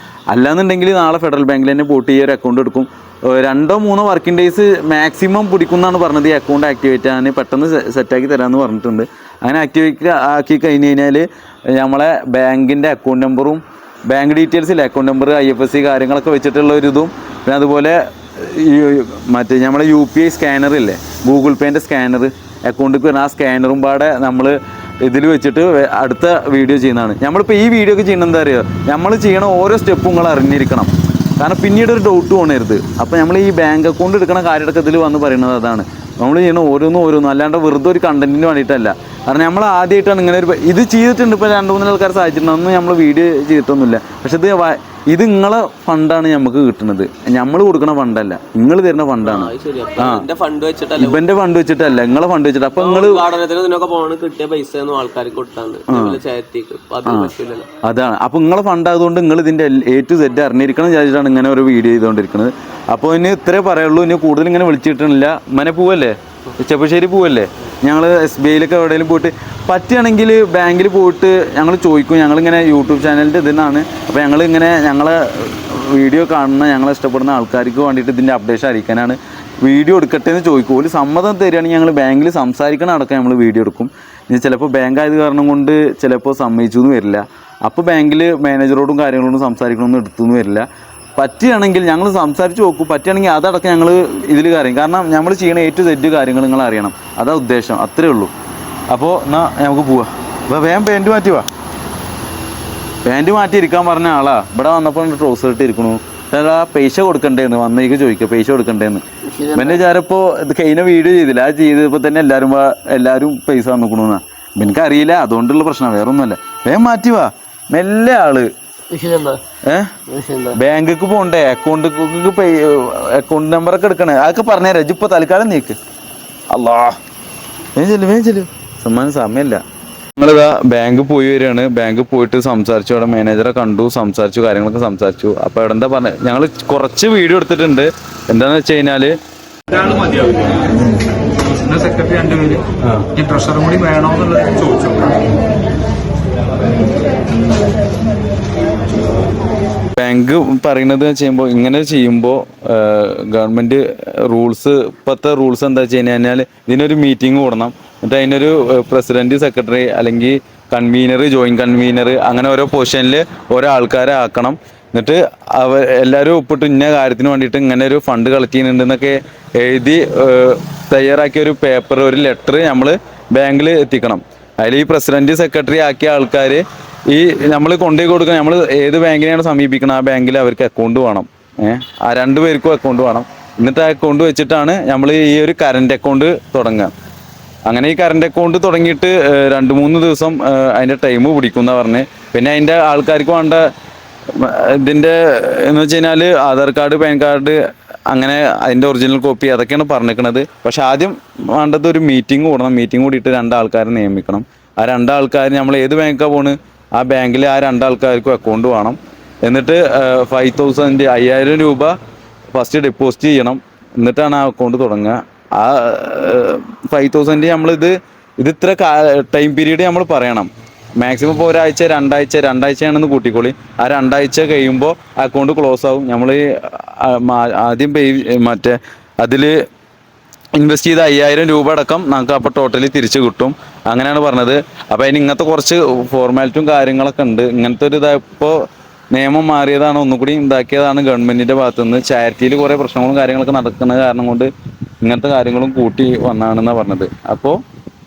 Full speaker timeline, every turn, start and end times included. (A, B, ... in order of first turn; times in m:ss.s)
0:00.3-0:50.3 A
0:49.2-0:51.2 B
0:51.0-0:53.2 A
0:52.7-0:57.7 B
0:55.9-0:56.2 A
0:57.1-0:57.3 A
0:57.8-1:38.3 A
1:38.9-1:41.5 A
1:43.0-1:58.5 A
1:49.2-1:49.8 B
1:58.9-1:59.4 B
1:59.6-2:00.0 A
2:00.1-2:00.6 B
2:00.5-2:05.8 A
2:06.5-2:07.0 A
2:07.8-2:09.6 A
2:10.2-2:19.2 A
2:19.8-2:20.4 A
2:21.6-2:22.6 C
2:22.9-2:23.2 A
2:23.2-2:25.1 C
2:30.0-3:06.9 A
3:07.7-3:13.6 A
3:14.3-3:17.6 A
3:18.1-3:32.0 A
3:32.5-3:49.6 A
3:50.6-3:58.6 A
3:59.1-4:04.5 A
4:05.0-4:07.6 A